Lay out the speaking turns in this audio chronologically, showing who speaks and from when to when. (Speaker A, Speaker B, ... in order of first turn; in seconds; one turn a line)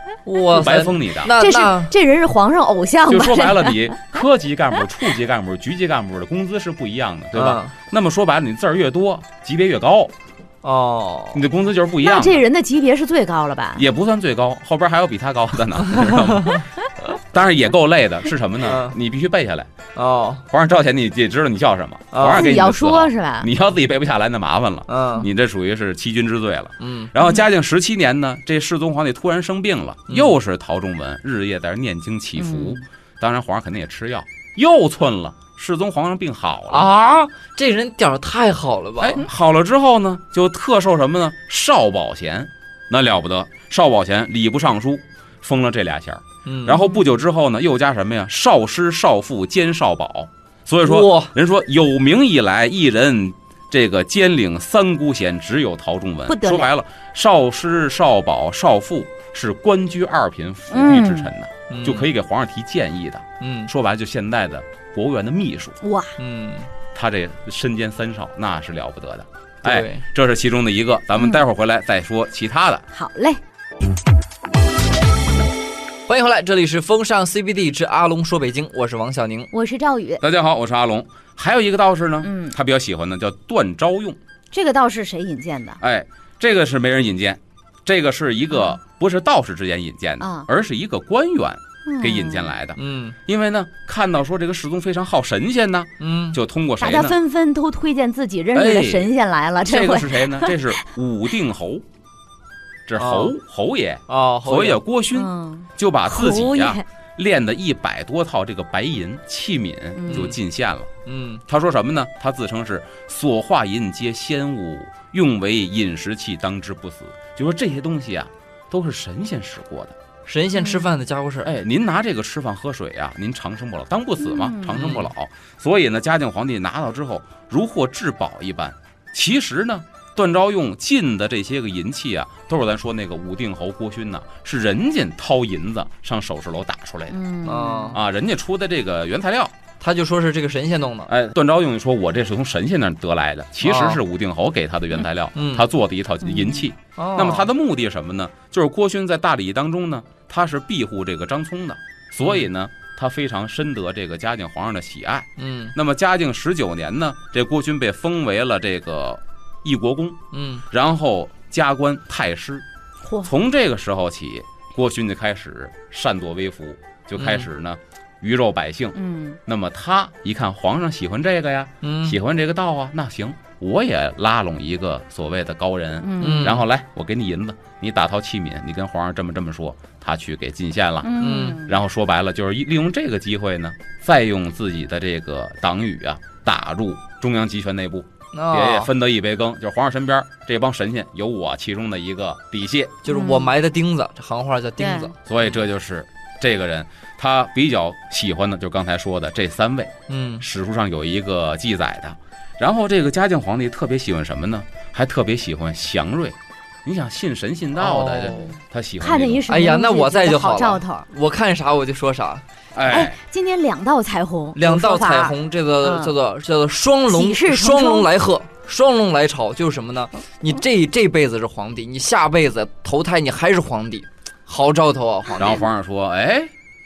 Speaker A: 0.2-1.9
Speaker B: 0.5-1.3
Speaker C: 1.3-4.0
Speaker B: 3.1-10.1
Speaker A: 7.3-7.7
Speaker A: 10.6-11.4
Speaker B: 11.3-12.4
Speaker C: 12.0-13.8
Speaker B: 13.8-19.7
Speaker A: 16.0-16.6
Speaker A: 18.6-19.0
Speaker A: 19.9-20.4
Speaker B: 20.5-36.9
Speaker A: 22.1-22.5
Speaker C: 22.3-23.5
Speaker A: 24.9-25.3
Speaker A: 26.8-27.1
Speaker A: 30.1-30.4
Speaker C: 32.4-32.8
Speaker A: 36.7-39.2
Speaker B: 39.0-65.8
Speaker A: 46.5-46.8
Speaker C: 46.7-47.0
Speaker A: 50.9-51.3
Speaker C: 56.3-56.7
Speaker C: 60.7-61.3
Speaker A: 61.7-62.1
Speaker A: 63.4-63.7
Speaker C: 65.8-66.2
Speaker A: 66.2-66.7
Speaker B: 66.9-72.8
Speaker A: 69.6-70.0
Speaker C: 72.9-73.4
Speaker A: 76.1-79.5
Speaker C: 79.5-80.2
Speaker B: 80.2-84.2
Speaker C: 82.2-82.5
Speaker C: 84.5-85.8
Speaker B: 85.8-97.2
Speaker C: 90.2-90.5
Speaker C: 91.9-92.6
Speaker A: 92.8-93.2
Speaker A: 96.0-96.4
Speaker C: 96.8-100.7
Speaker B: 98.5-99.1
Speaker B: 99.6-101.8
Speaker B: 102.9-110.9
Speaker A: 103.0-103.3
Speaker A: 104.1-104.8
Speaker C: 105.1-106.8
Speaker C: 110.0-110.3
Speaker A: 110.1-110.4
Speaker A: 111.1-111.4
Speaker B: 111.5-120.0
Speaker A: 120.3-121.5
Speaker C: 120.6-120.9
Speaker B: 121.4-137.2
Speaker C: 124.2-125.0
Speaker A: 124.8-125.1
Speaker C: 137.1-138.0
Speaker A: 137.4-138.0
Speaker B: 137.9-139.5
Speaker A: 139.8-141.1
Speaker B: 141.1-162.6
Speaker A: 143.6-144.0
Speaker A: 145.4-145.7
Speaker C: 146.2-146.7
Speaker A: 147.0-147.5
Speaker A: 155.4-155.7
Speaker A: 160.3-160.6
Speaker C: 163.1-163.3
Speaker B: 163.2-193.0
Speaker A: 167.2-167.5
Speaker C: 169.0-169.4
Speaker A: 171.8-172.2
Speaker C: 176.0-176.6
Speaker A: 176.2-176.6
Speaker C: 181.0-181.8
Speaker A: 181.2-181.6
Speaker A: 188.3-188.9
Speaker A: 193.0-195.2
Speaker C: 193.1-193.5
Speaker C: 194.8-195.1
Speaker B: 195.3-209.4
Speaker A: 200.1-200.4
Speaker A: 207.8-208.6
Speaker C: 209.0-211.1
Speaker A: 209.5-212.4
Speaker B: 212.8-213.2
Speaker C: 212.9-216.1
Speaker A: 214.6-225.6
Speaker C: 217.1-218.1
Speaker B: 225.4-226.5